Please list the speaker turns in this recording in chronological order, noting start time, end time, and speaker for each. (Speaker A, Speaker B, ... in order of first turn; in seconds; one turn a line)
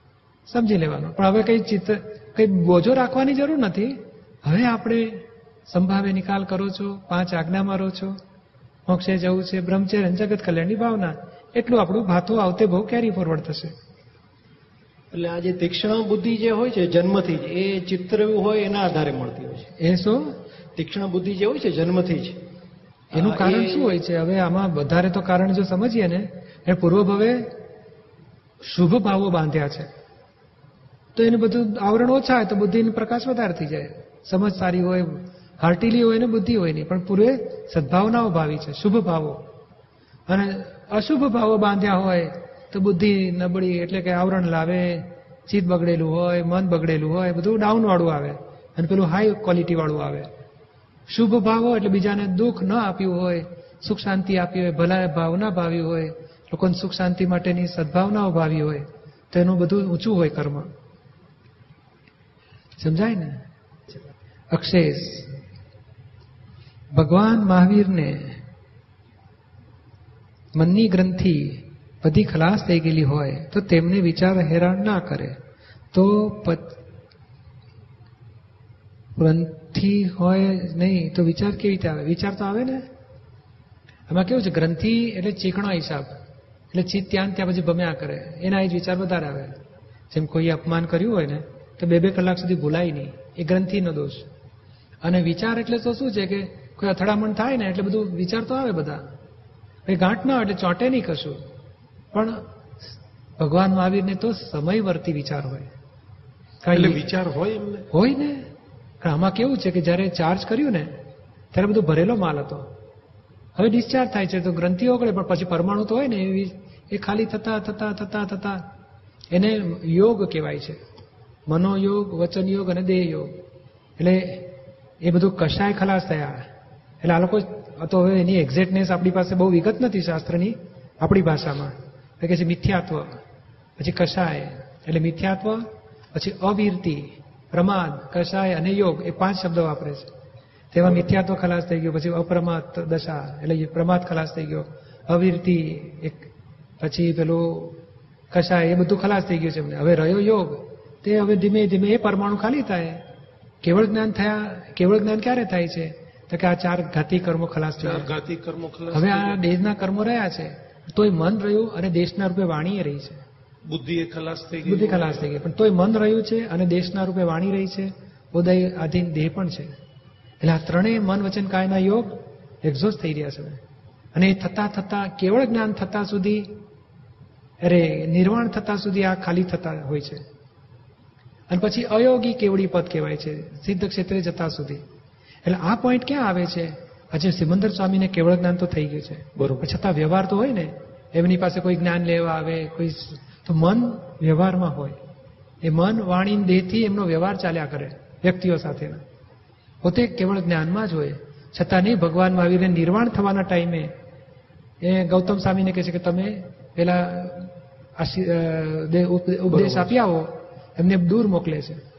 Speaker A: 0.5-8.2
Speaker A: 8.9-13.7
Speaker B: 15.1-19.7
Speaker A: 19.8-20.3
Speaker B: 20.8-22.4
Speaker B: 23.1-23.9
Speaker A: 23.1-27.4
Speaker A: 28.6-29.9
Speaker A: 31.1-39.4
Speaker A: 40.3-50.3
Speaker A: 51.1-60.7
Speaker A: 62.8-63.4
Speaker A: 64.5-65.4
Speaker A: 66.9-68.4
Speaker A: 70.5-75.3
Speaker A: 75.9-76.8
Speaker A: 79.2-82.8
Speaker A: 84.1-86.1
Speaker A: 86.7-89.5
Speaker A: 90.1-94.3
Speaker A: 95.0-99.0
Speaker A: 99.8-101.4
Speaker A: 102.1-102.4
Speaker A: 103.4-105.7
Speaker A: 106.6-107.0
Speaker C: 106.7-107.9
Speaker A: 107.9-108.4
Speaker A: 109.0-110.9
Speaker A: 111.5-112.7
Speaker A: 113.5-118.6
Speaker A: 119.3-120.8
Speaker A: 121.5-123.4
Speaker A: 124.0-124.5
Speaker A: 125.0-126.4
Speaker A: 127.0-133.2
Speaker A: 133.8-140.1
Speaker A: 140.7-146.2
Speaker A: 146.8-147.8
Speaker A: 148.3-153.0
Speaker A: 153.6-158.1
Speaker C: 157.8-159.4
Speaker A: 158.9-163.2
Speaker C: 163.7-165.3
Speaker A: 164.6-169.7
Speaker A: 170.4-173.6
Speaker A: 174.1-176.6
Speaker A: 177.6-180.2
Speaker A: 181.5-184.8
Speaker A: 185.4-195.0
Speaker C: 189.3-189.6
Speaker A: 195.6-199.0
Speaker A: 199.8-203.9
Speaker A: 204.8-211.8
Speaker C: 209.5-209.9